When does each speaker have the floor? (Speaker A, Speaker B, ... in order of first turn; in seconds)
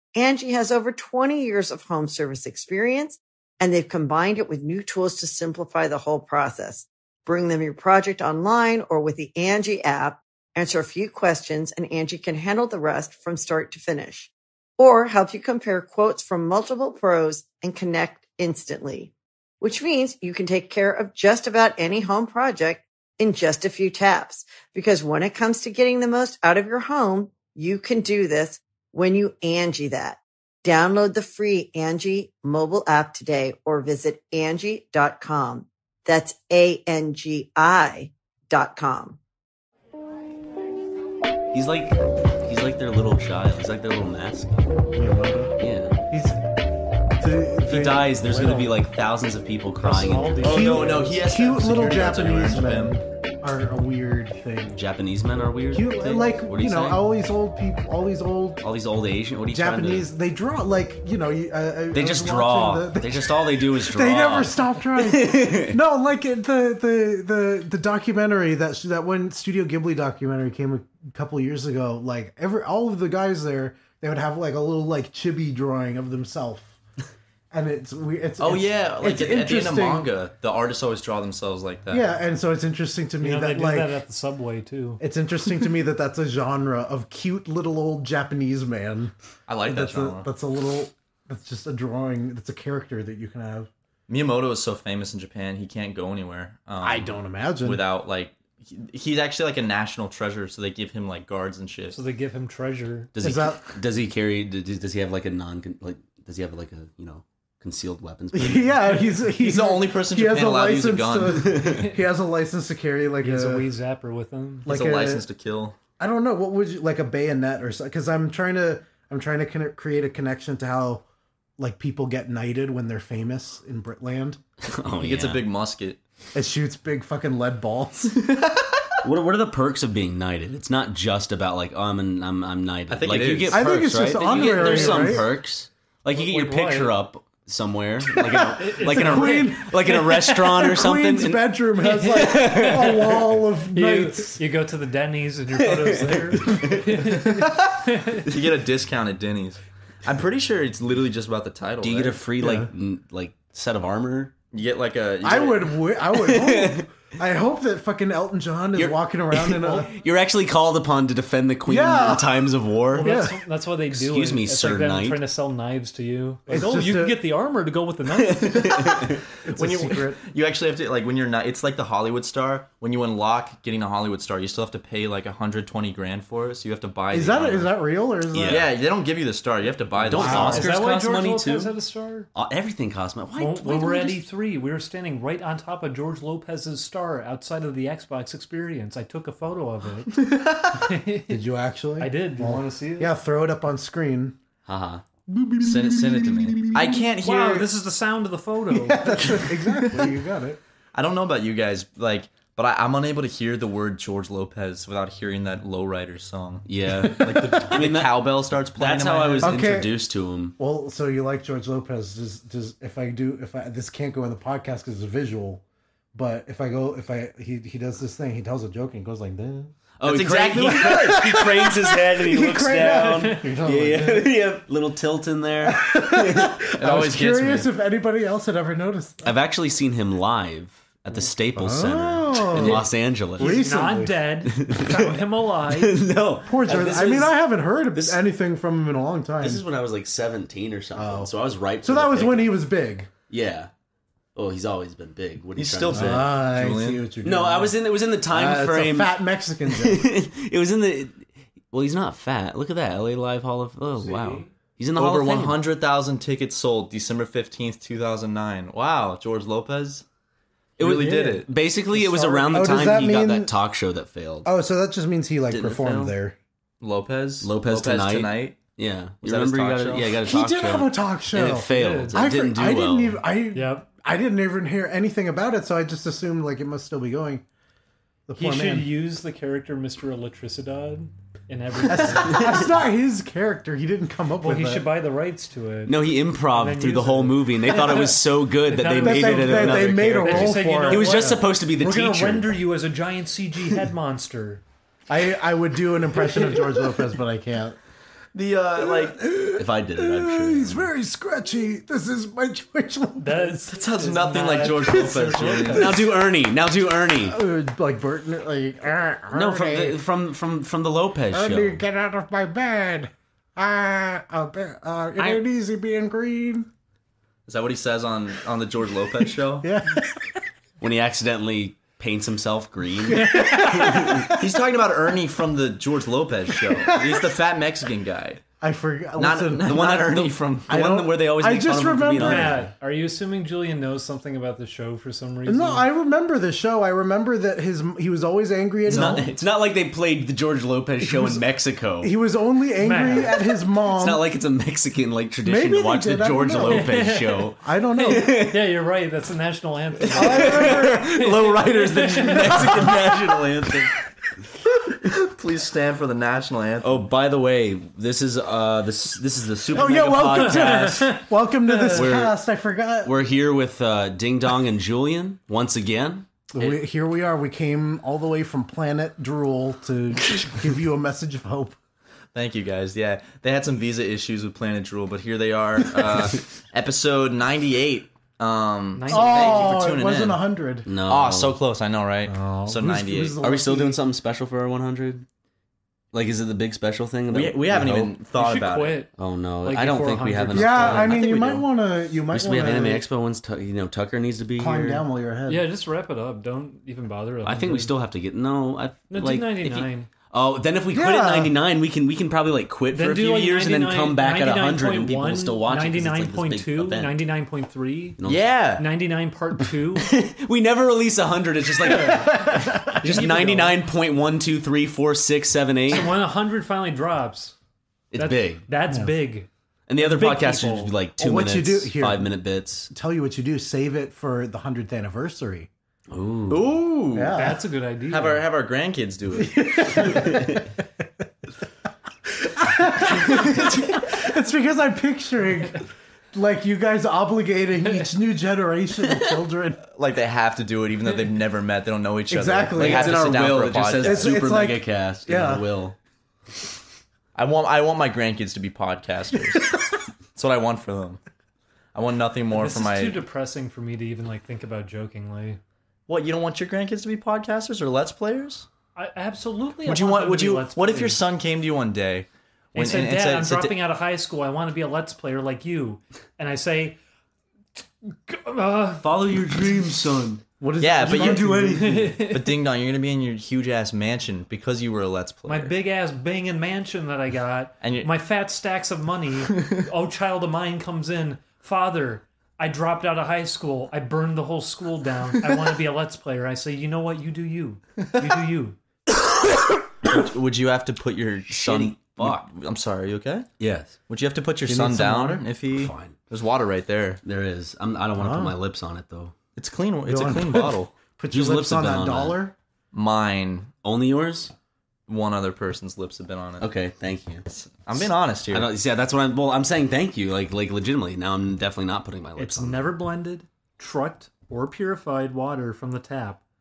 Speaker A: 0.2-39.2
Speaker B: 41.5-44.7, 45.6-46.0, 47.7-50.5, 54.8-57.0, 58.6-60.1, 61.9-65.8, 103.2-108.9, 124.6-125.5, 129.0-143.3, 145.5-147.2, 151.8-154.3, 156.2-156.9, 158.8-163.3, 163.9-165.2, 168.3-169.2, 178.3-178.7, 180.1-181.8, 182.3-184.2, 194.7-195.0, 206.7-210.6, 220.0-226.5, 229.2-233.7, 234.5-235.1, 235.7-237.3, 239.4-242.6, 243.3-243.7, 244.3-246.3, 247.2-249.2, 249.7-255.6, 260.8-264.5, 265.5-266.2, 267.4-273.2, 282.2-282.7, 285.9-292.6, 299.5-300.9, 305.7-307.4, 309.3-311.8, 315.2-315.4, 320.8-324.4, 329.6-332.7, 338.9-342.1, 343.9-348.6, 350.0-354.0, 356.8-361.1, 361.9-362.3, 363.0-366.3, 380.9-381.6, 383.4-385.3, 386.1-388.2, 389.2-391.2, 392.3-395.1, 397.4-407.2, 408.2-408.5, 410.0-416.2, 418.1-418.6, 419.9-422.9, 426.1-426.8, 442.8-446.0, 469.0-470.4, 491.5-492.5, 493.6-494.0, 495.7-496.2, 497.2-499.3, 501.3-502.4, 503.8-504.5, 506.6-507.4, 508.5-512.9
Speaker C: 44.9-45.5, 46.1-46.4, 47.2-48.7, 50.4-54.8, 55.7-58.6, 59.5-76.7, 77.5-80.1, 81.9-84.0, 85.0-89.1, 89.7-93.7, 96.8-97.8, 103.2-103.8, 108.3-113.7, 114.7-115.2, 116.0-121.0, 121.6-124.4, 126.3-128.1, 133.5-135.3, 138.8-144.4, 152.4-152.7, 155.2-159.9, 161.7-163.4, 166.5-167.2, 169.4-170.2, 177.1-178.7, 180.0-180.7, 191.3-194.4, 195.3-197.1, 198.7-200.6, 207.1-207.4, 209.4-210.0, 210.6-215.6, 216.1-219.7, 220.3-224.3, 225.6-229.3, 231.6-234.2, 236.5-239.6, 240.9-241.3, 241.8-243.1, 245.9-250.1, 261.9-263.5, 264.4-266.4, 270.2-277.4, 278.3-278.9, 281.9-284.9, 288.9-291.4, 295.1-297.8, 298.8-303.6, 305.2-305.9, 307.2-310.0, 311.3-316.7, 319.6-320.4, 323.1-324.5, 326.5-327.4, 328.6-332.7, 335.5-339.3, 341.0-341.4, 342.0-344.3, 345.4-348.4, 350.1-351.0, 352.5-353.0, 359.7-363.2, 366.5-371.8, 379.1-380.9, 382.3-384.0, 390.5-393.1, 394.6-395.7, 400.9-401.6, 412.0-413.3, 421.2-422.3, 422.9-425.7, 427.1-427.6, 429.3-430.6, 432.4-439.8, 442.3-443.4, 444.0-445.6, 470.6-472.1, 494.6-495.4, 498.2-498.6, 500.1-502.6
Speaker D: 49.8-51.2, 83.2-85.0, 101.9-103.1, 113.2-114.8, 134.3-135.2, 136.1-136.9, 138.6-139.6, 142.0-143.2, 143.7-148.3, 162.9-168.8, 180.5-182.3, 183.4-190.1, 190.7-191.4, 192.0-193.1, 197.2-199.4, 222.8-223.6, 233.4-236.0, 254.0-254.5, 271.7-272.2, 273.6-273.9, 278.4-282.7, 284.4-294.6, 303.2-306.1, 323.3-323.6, 332.2-335.9, 338.9-339.2, 342.8-343.3, 346.6-352.8, 360.2-362.1, 379.0-379.8, 388.3-389.1, 389.6-391.0, 395.5-397.9, 399.1-400.1, 402.9-408.2, 408.8-410.1, 411.8-413.8, 415.9-417.6, 418.2-420.9, 427.4-428.5, 452.5-455.6, 458.9-461.2, 462.7-467.0, 468.1-469.1, 471.1-472.6, 475.5-488.8, 512.4-516.4
Speaker E: 50.4-53.0, 78.4-82.2, 89.5-90.3, 94.1-97.1, 97.6-102.0, 109.2-111.8, 114.7-115.8, 125.0-126.0, 128.2-128.8, 132.9-133.8, 134.4-135.0, 147.0-152.2, 154.5-155.8, 168.6-177.7, 178.5-180.7, 190.3-190.8, 195.6-197.7, 199.6-200.1, 200.9-209.7, 220.1-221.3, 226.8-227.7, 232.6-232.8, 245.6-247.0, 255.0-260.1, 260.8-261.5, 266.8-268.6, 269.2-270.2, 298.3-299.2, 303.7-306.1, 317.5-319.7, 324.2-328.4, 329.2-330.8, 355.1-357.0, 372.3-380.4, 381.1-383.4, 387.3-389.0, 390.8-391.6, 408.2-408.8, 426.5-427.6, 428.1-430.2, 439.9-444.4, 447.4-449.8, 450.4-451.2, 451.9-453.2, 456.1-458.7, 459.9-463.8, 470.8-475.7, 477.8-478.1, 490.1-493.5, 494.1-497.2, 499.6-500.9, 502.9-503.7, 505.1-506.7, 507.5-508.7